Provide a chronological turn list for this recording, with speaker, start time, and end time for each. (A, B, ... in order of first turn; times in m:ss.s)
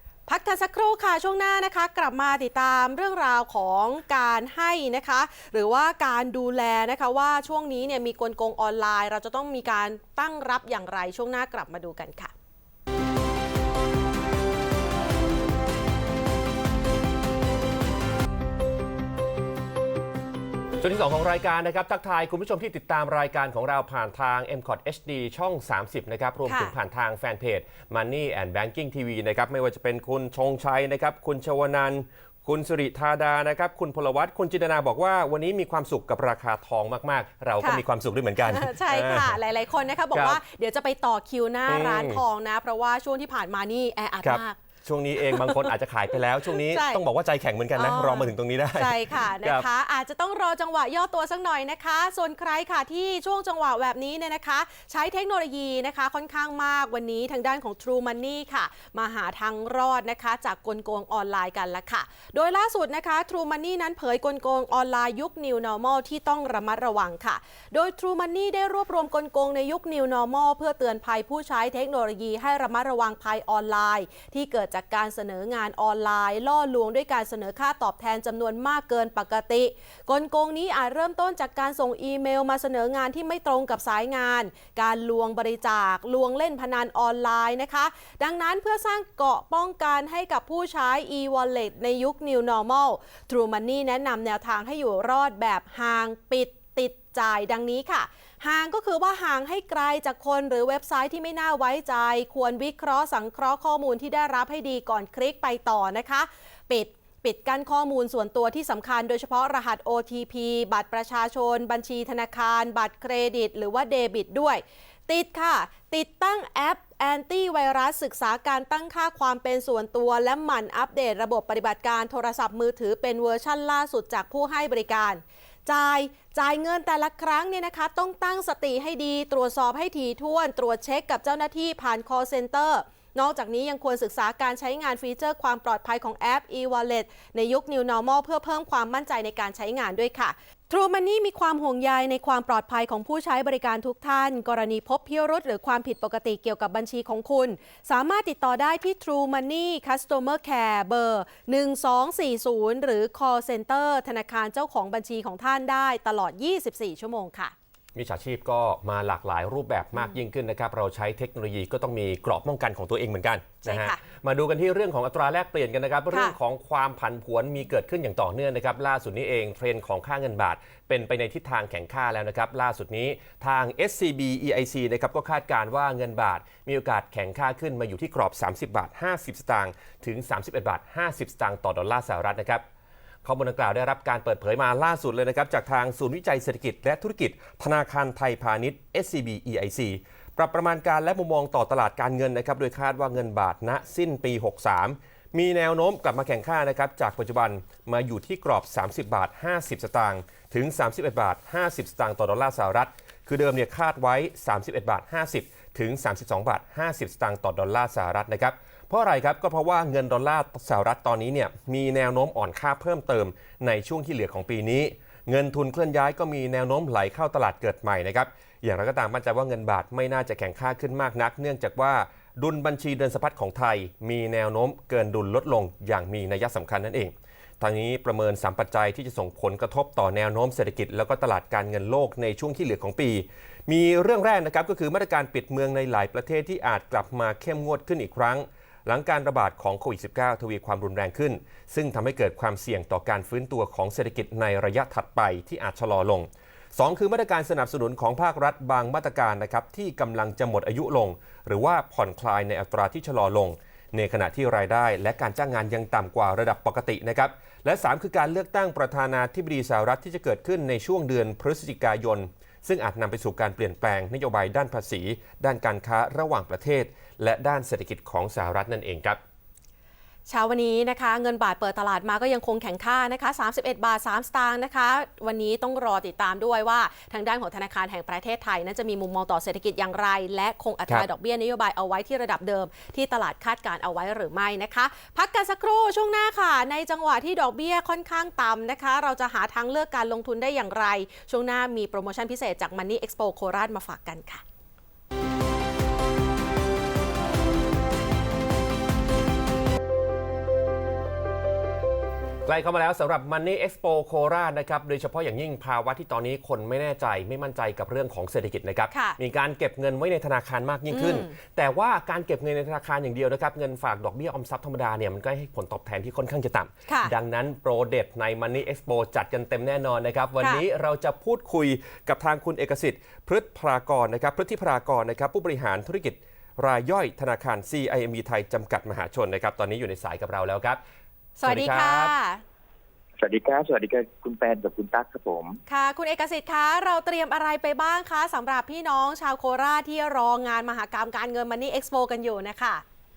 0:00.3-0:12.3 A
0:20.8-0:39.4 B
0:26.5-0:26.8 A
0:38.4-0:44.6 A
0:40.1-0:40.4 B
0:41.7-0:42.2 B
0:44.2-0:49.7 B
0:45.2-0:45.7 A
0:46.6-0:47.0 A
0:47.8-2:37.5 A
2:38.0-3:02.6 B
2:43.6-2:44.0 A
2:46.1-2:46.4 A
3:03.2-4:29.2 B
4:30.3-4:54.4 A
5:02.4-5:30.8 B
5:08.9-5:09.2 A
5:10.9-5:11.3 A
5:16.9-5:17.1 A
5:31.4-5:32.4 A
5:31.4-5:32.1 B
5:33.2-5:35.6 C
5:35.7-5:42.8 A